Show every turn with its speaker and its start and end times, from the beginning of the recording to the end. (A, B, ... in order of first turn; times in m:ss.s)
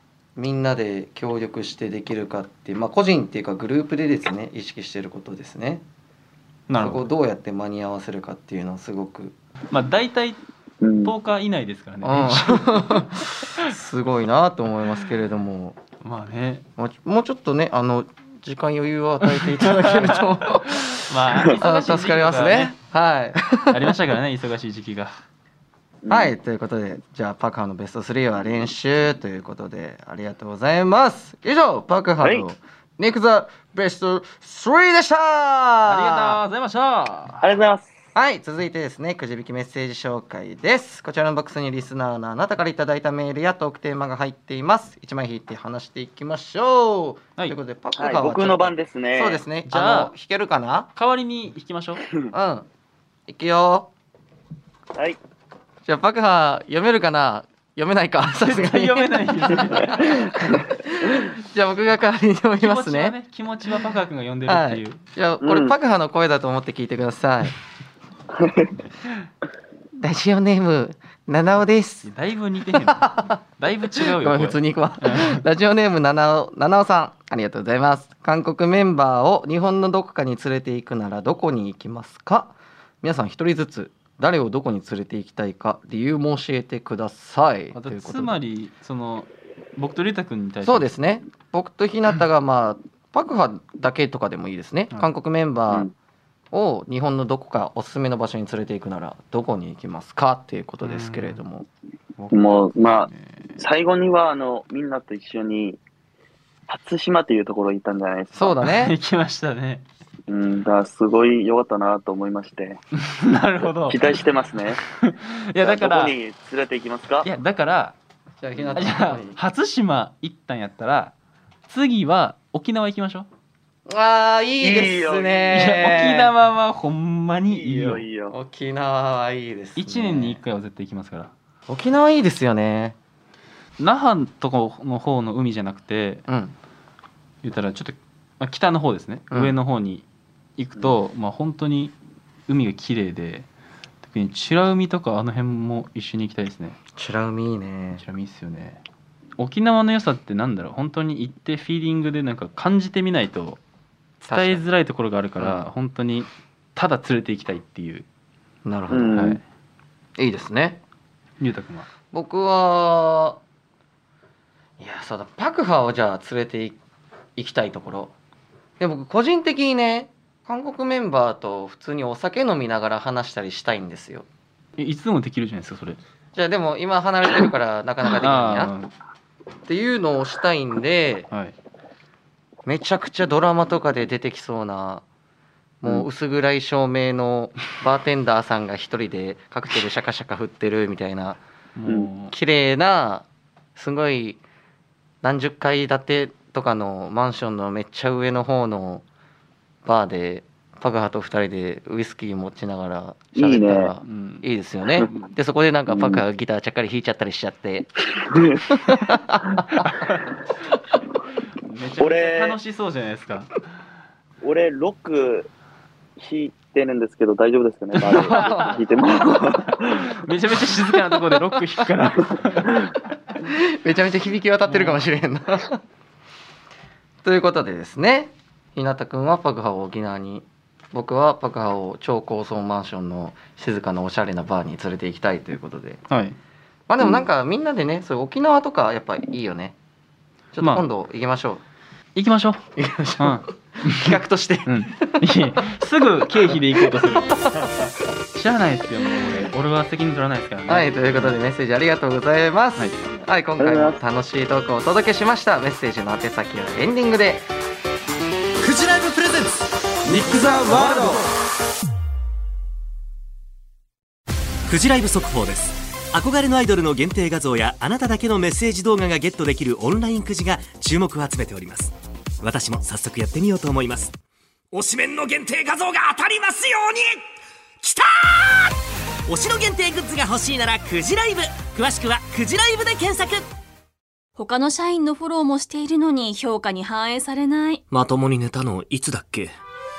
0:00.4-0:05.8 A
0:06.7-0:07.1 B
0:06.8-0:09.4 A
0:09.7-0:10.4 B
0:10.8-0:11.1 C
0:11.0-0:13.7 B
0:12.0-0:15.8 A
0:16.0-0:16.6 B
0:16.8-0:23.8 A
0:19.8-0:20.3 B
0:21.1-0:22.8 B
0:23.7-0:25.1 B
0:26.0-0:26.4 C
0:26.1-0:36.4 A
0:32.2-0:32.5 C
0:35.8-0:37.4 B
0:37.4-0:37.9 C
0:38.2-0:50.9 A
0:48.0-0:49.4 C
0:49.7-0:50.1 B
0:51.0-0:52.1 B
0:52.3-0:52.7 A
0:53.3-0:53.9 A
0:55.8-1:03.2 A
0:58.4-1:00.2 B
1:02.6-1:05.0 B
1:04.5-1:07.6 A
1:05.4-1:05.8 C
1:08.4-1:08.8 C
1:10.0-1:12.1 A
1:12.0-1:15.4 B
1:12.8-1:13.4 A
1:14.0-1:28.4 A
1:27.7-1:30.9 B
1:30.6-1:35.9 A
1:36.5-1:41.7 A
1:40.8-1:41.4 B
1:42.2-1:43.5 B
1:42.3-1:45.8 C
1:46.7-1:48.6 C
1:48.3-1:49.0 A
1:48.6-1:49.9 B
1:50.3-1:52.8 C
1:53.0-1:54.2 B
1:53.9-1:54.8 C
1:54.8-1:56.2 B
1:55.6-1:57.3 C
1:57.2-1:58.0 B
1:58.4-1:59.4 A
1:58.6-2:01.2 B
2:01.7-2:03.3 B
2:03.9-2:06.3 A
2:04.6-2:05.7 C
2:05.5-2:08.0 B
2:07.5-2:08.3 C
2:08.3-2:10.4 A
2:09.8-2:11.3 B
2:11.7-2:13.0 A
2:13.8-2:16.2 B
2:16.3-2:16.6 A
2:17.4-2:20.1 B
2:20.6-2:22.0 B
2:22.5-2:23.5 B
2:24.0-2:26.8 B
2:27.0-2:28.0 A
2:28.0-2:28.8 B
2:29.4-2:33.6 B
2:34.2-2:34.6 A
2:34.3-2:38.1 B
2:38.6-2:39.4 A
2:38.9-2:39.4 C
2:39.2-2:39.4 B
2:40.2-2:40.8 A
2:41.4-2:41.9 B
2:42.1-2:43.4 A
2:44.8-2:46.8 A
2:47.4-2:48.1 A
2:48.8-2:54.3 A
2:54.8-2:56.0 B
2:56.3-2:58.7 A
2:58.2-2:58.9 B
2:59.6-3:01.3 A
3:01.3-3:01.6 B
3:02.7-3:05.0 A
3:05.8-3:11.4 A
3:11.8-3:12.3 B
3:12.3-3:14.4 A
3:15.2-3:19.0 A
3:19.8-3:28.0 A
3:23.4-3:23.9 C
3:24.0-3:24.5 B
3:25.9-3:26.2 C
3:28.2-3:28.6 C
3:28.9-3:29.5 A
3:29.7-3:30.3 B
3:31.6-3:33.5 B
3:32.0-3:32.6 C
3:34.4-3:35.5 C
3:36.2-3:40.0 C
3:38.0-3:38.8 B
3:38.1-3:38.8 A
3:39.9-3:42.8 B
3:43.5-3:45.8 A
3:44.7-3:45.0 B
3:47.2-3:56.0 A
3:56.1-3:56.4 B
3:56.9-3:59.8 A
4:00.5-4:01.6 A
4:00.6-4:00.8 B
4:02.2-4:02.6 B
4:02.8-4:05.4 A
4:03.2-4:07.4 B
4:08.3-4:11.4 B
4:10.7-4:17.5 A
4:13.6-4:14.0 C
4:18.6-4:21.2 D
4:20.5-4:20.8 B
4:24.7-4:34.2 D
4:34.7-4:37.2 D
4:37.8-4:43.5 D
4:44.4-4:47.8 E
4:47.9-4:49.5 D